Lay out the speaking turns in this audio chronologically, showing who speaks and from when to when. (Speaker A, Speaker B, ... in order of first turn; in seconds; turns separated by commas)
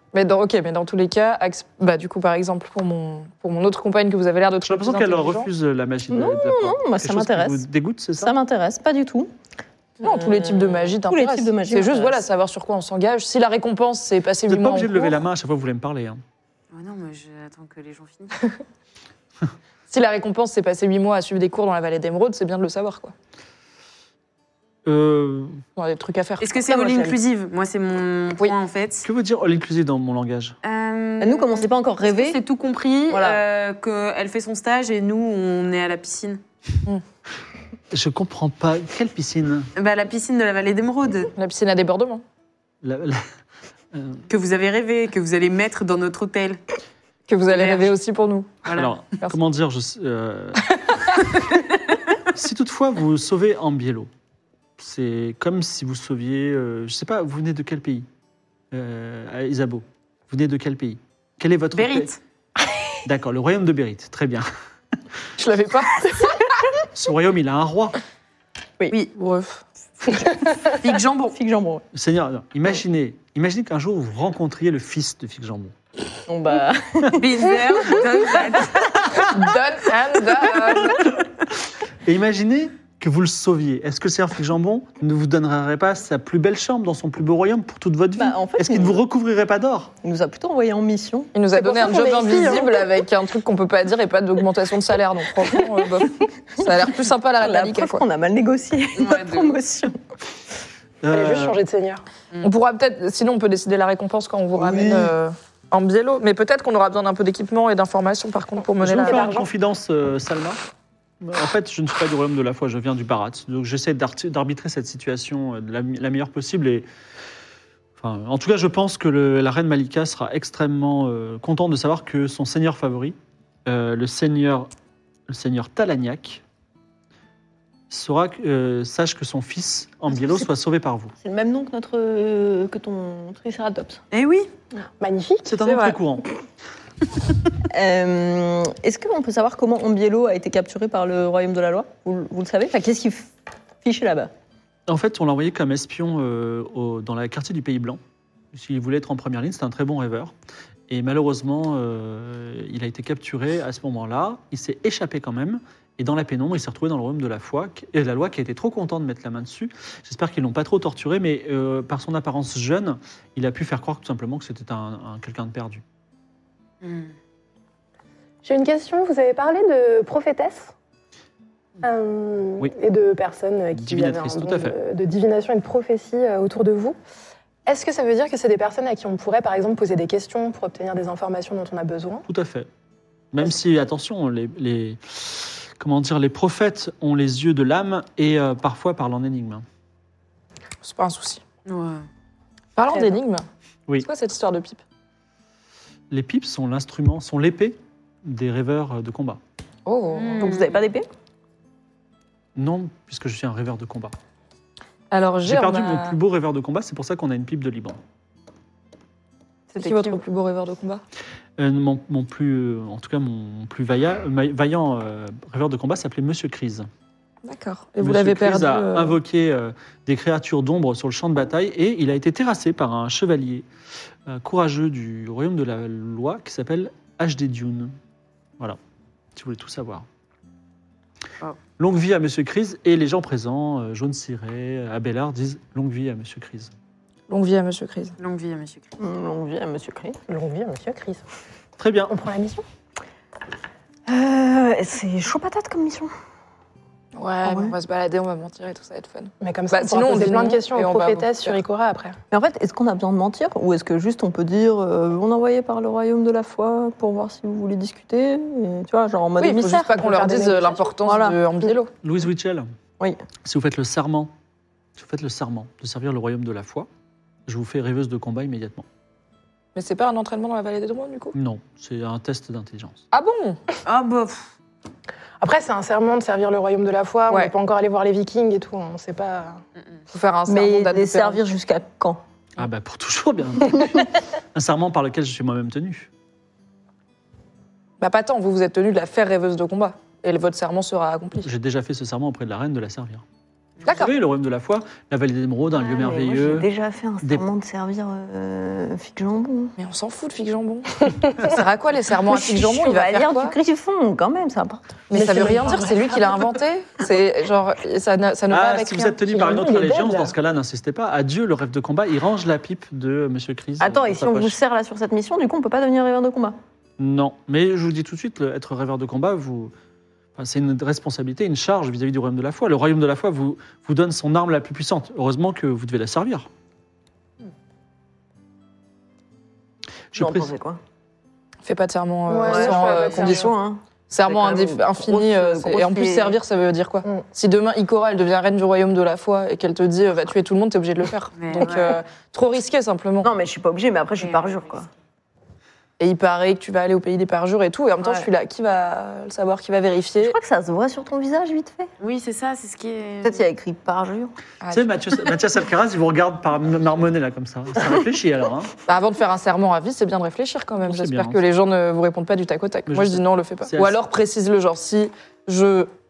Speaker A: 0.1-5.5, Speaker B: 4.7-8.3, Speaker C: 6.1-7.6, Speaker C: 8.2-9.3, Speaker A: 10.0-15.2, Speaker C: 10.0-12.2, Speaker B: 14.5-16.2, Speaker D: 16.7-18.5, Speaker A: 19.9-23.1, Speaker B: 24.9-25.6, Speaker A: 25.8-27.2, Speaker D: 26.4-29.1, Speaker B: 29.0-30.6, Speaker D: 30.6-36.4, Speaker C: 31.2-32.4, Speaker C: 33.1-33.4, Speaker B: 37.9-39.7, Speaker D: 39.8-41.3, Speaker A: 41.4-42.2, Speaker B: 42.8-43.3, Speaker B: 43.9-44.2, Speaker D: 44.3-46.6, Speaker A: 47.3-48.6, Speaker D: 47.5-47.9, Speaker D: 48.6-48.9, Speaker B: 48.7-50.6, Speaker B: 52.3-54.1, Speaker B: 54.8-58.1, Speaker B: 58.7-62.1, Speaker D: 61.7-62.2, Speaker B: 63.0-64.5, Speaker A: 65.4-66.5, Speaker B: 66.9-68.0, Speaker A: 69.2-69.6, Speaker D: 70.7-71.4, Speaker C: 71.3-71.8, Speaker B: 71.9-75.7, Speaker C: 76.3-77.2, Speaker D: 77.2-78.9, Speaker A: 79.2-81.1, Speaker B: 82.0-89.9, Speaker C: 88.2-89.0, Speaker C: 90.0-91.3, Speaker A: 91.3-98.0, Speaker E: 91.5-92.8, Speaker C: 96.6-100.0, Speaker D: 99.0-99.6, Speaker B: 101.0-101.6, Speaker E: 101.1-102.0, Speaker A: 102.4-109.3, Speaker C: 104.6-105.1, Speaker B: 108.8-110.6, Speaker E: 109.0-109.5, Speaker B: 111.2-116.9, Speaker B: 118.0-124.7, Speaker B: 125.3-126.4, Speaker B: 127.9-131.1, Speaker C: 131.2-134.0, Speaker D: 134.1-134.5, Speaker E: 135.0-135.5, Speaker B: 135.4-136.3, Speaker A: 135.6-136.0, Speaker C: 137.7-143.3, Speaker C: 143.8-144.3, Speaker B: 144.9-148.0, Speaker B: 148.5-150.3, Speaker B: 150.9-165.8, Speaker D: 166.8-167.1, Speaker E: 168.4-170.7, Speaker E: 171.8-177.0, Speaker B: 173.7-174.8, Speaker E: 177.7-182.3, Speaker B: 182.3-182.7, Speaker B: 183.3-189.7, Speaker A: 190.8-191.4, Speaker D: 191.7-192.1, Speaker A: 192.8-193.4, Speaker A: 194.0-194.8, Speaker B: 196.1-199.4, Speaker A: 199.9-200.5, Speaker D: 200.2-200.8, Speaker C: 200.4-201.1, Speaker B: 202.6-204.1, Speaker A: 205.1-206.2, Speaker B: 205.4-208.0, Speaker A: 209.7-211.0, Speaker B: 211.6-216.9, Speaker A: 217.4-219.2, Speaker B: 218.0-223.7, Speaker B: 224.3-227.9, Speaker B: 229.3-230.1, Speaker B: 231.8-236.7, Speaker A: 237.3-238.2, Speaker D: 238.2-238.9, Speaker C: 239.0-240.2, Speaker E: 240.3-241.2, Speaker B: 241.8-242.1, Speaker E: 242.1-242.6, Speaker C: 244.1-246.1, Speaker A: 247.2-251.6, Speaker C: 247.4-247.7, Speaker E: 249.4-252.2, Speaker C: 252.3-260.1, Speaker A: 259.4-261.9, Speaker E: 260.0-260.9, Speaker C: 261.0-261.4, Speaker B: 262.0-262.7, Speaker B: 263.4-264.3, Speaker B: 265.0-266.9, Speaker B: 267.5-268.9, Speaker A: 269.8-271.3, Speaker B: 271.3-273.0, Speaker A: 273.1-273.6, Speaker D: 273.9-274.5, Speaker E: 275.4-279.6, Speaker A: 280.1-281.4, Speaker C: 280.5-282.2, Speaker B: 282.6-286.1, Speaker A: 288.0-291.5, Speaker B: 291.4-293.2, Speaker B: 293.9-296.7, Speaker C: 295.9-299.7, Speaker B: 297.2-297.5, Speaker A: 299.8-303.6, Speaker C: 302.3-305.0, Speaker A: 305.1-309.2, Speaker E: 305.1-306.3, Speaker B: 308.5-314.6, Speaker E: 309.3-310.3, Speaker C: 313.8-316.6, Speaker B: 317.0-319.7, Speaker B: 320.4-326.5, Speaker B: 330.1-330.5, Speaker C: 330.2-330.8, Speaker A: 331.6-333.6, Speaker E: 332.3-333.5, Speaker C: 332.4-336.4, Speaker A: 334.1-343.3, Speaker D: 341.4-341.7, Speaker C: 341.6-342.0, Speaker C: 343.2-344.9, Speaker D: 344.2-344.5, Speaker A: 346.0-350.4, Speaker C: 348.0-348.3, Speaker C: 350.2-351.9, Speaker D: 352.0-353.4, Speaker C: 353.2-354.4, Speaker A: 354.6-354.9, Speaker B: 354.7-358.7, Speaker A: 358.9-365.9, Speaker B: 360.9-361.4, Speaker B: 362.9-364.0